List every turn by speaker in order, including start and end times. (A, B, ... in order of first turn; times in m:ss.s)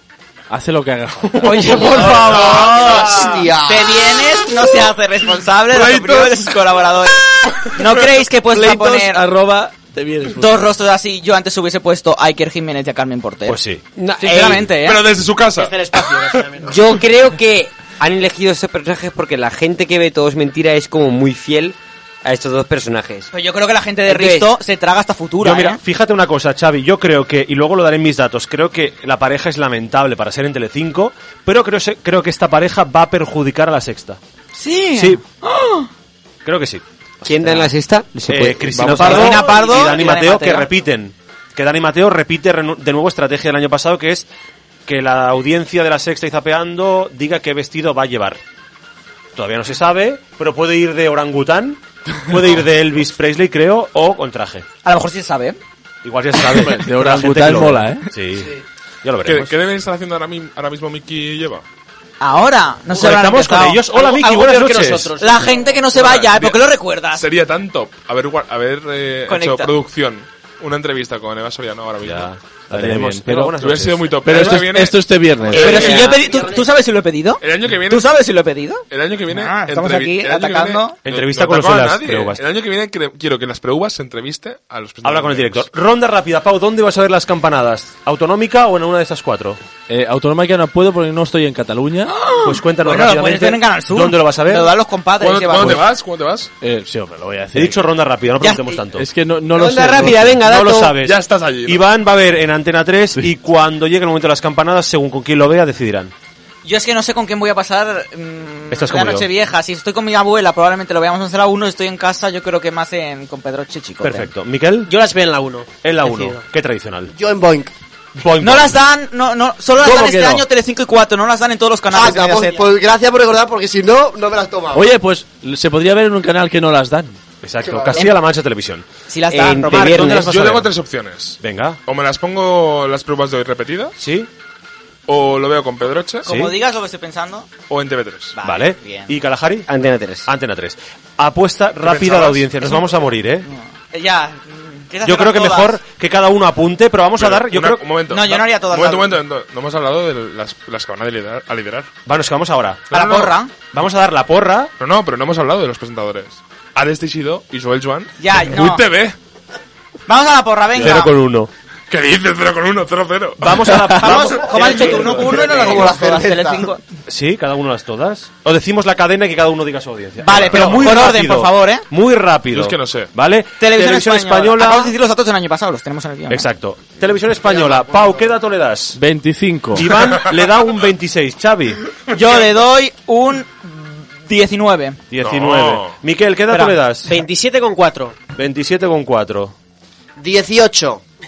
0:00.5-0:02.5 A
0:01.4-0:09.2 B
0:01.8-0:02.4 C
0:02.0-0:02.9 D
0:02.1-0:04.1 E
0:05.7-0:06.6 D
0:08.5-0:10.7 A
0:10.4-0:13.6 B
0:13.4-0:13.8 F
0:14.0-0:14.7 C
0:14.2-0:15.1 B
0:14.8-0:16.2 D
0:15.5-0:16.9 G
0:16.6-0:23.3 C
0:23.3-0:25.8 B
0:24.1-0:24.5 C
0:25.4-0:34.2 F
0:34.6-0:35.9 B
0:34.9-0:35.2 F
0:36.4-0:37.7 F
0:37.2-0:39.6 C
0:38.3-0:44.3 F
0:38.7-0:39.3 A
0:39.0-0:40.7 B
0:44.8-0:48.4 F
0:49.3-0:54.6 F
0:54.8-0:55.6 B
0:56.0-0:59.5 F
0:56.5-0:58.0 A
0:59.2-1:01.6 D
1:02.2-1:03.8 B
1:02.9-1:05.1 F
1:03.9-1:05.8 G
1:05.2-1:07.2 B
1:05.9-1:06.6 D
1:07.1-1:12.3 D
1:09.3-1:09.7 B
1:12.0-1:14.6 F
1:12.7-1:13.6 A
1:13.6-1:16.1 D
1:14.2-1:16.0 A
1:15.5-1:16.3 C
1:15.5-1:21.0 B
1:16.0-1:16.7 G
1:17.4-1:18.1 D
1:18.9-1:25.7 D
1:21.0-1:22.4 F
1:25.0-1:29.6 F
1:29.9-1:32.1 A
1:32.1-1:35.8 B
1:32.4-1:34.7 F
1:35.2-1:36.5 D
1:36.6-1:37.8 A
1:37.5-1:39.1 F
1:38.4-1:38.8 B
1:38.9-1:40.4 A
1:39.5-1:41.0 C
1:40.3-1:46.1 F
1:41.0-1:41.8 D
1:46.6-1:54.3 B
1:48.7-1:49.3 F
1:54.0-1:54.9 F
1:54.8-1:56.4 G
1:55.8-1:57.1 F
1:57.1-1:57.7 E
1:58.2-1:58.8 F
1:58.4-2:02.7 B
1:59.8-2:00.4 A
2:01.9-2:04.9 E
2:04.7-2:07.2 A
2:07.4-2:08.9 F
2:07.6-2:08.0 E
2:09.1-2:10.2 B
2:09.3-2:10.3 C
2:09.5-2:10.7 F
2:10.1-2:13.9 D
2:11.4-2:11.8 F
2:14.0-2:14.3 F
2:15.1-2:16.3 D
2:16.2-2:16.5 F
2:16.3-2:17.5 B
2:17.7-2:18.4 D
2:18.4-2:19.1 B
2:18.4-2:19.7 F
2:19.7-2:20.3 C
2:20.2-2:23.5 F
2:21.8-2:22.5 D
2:23.5-2:25.8 B
2:25.0-2:27.8 F
2:27.2-2:31.9 D
2:28.1-2:29.2 B
2:32.0-2:34.7 F
2:32.9-2:33.5 B
2:34.8-2:39.2 D
2:38.2-2:38.8 B
2:40.1-2:41.1 B
2:40.8-2:41.5 F
2:41.9-2:43.6 D
2:43.4-2:45.4 F
2:43.9-2:46.8 B
2:44.6-2:46.7 E
2:47.1-2:54.9 F
2:50.2-2:51.8 B
2:52.5-2:53.1 D
2:53.6-2:56.5 B
2:56.3-2:59.0 F
2:57.5-2:57.8 E
2:59.0-3:00.0 A
2:59.7-3:01.8 F
3:02.1-3:05.0 B
3:05.1-3:07.1 F
3:05.2-3:06.0 D
3:06.5-3:08.2 G
3:08.3-3:09.5 F
3:10.2-3:11.0 E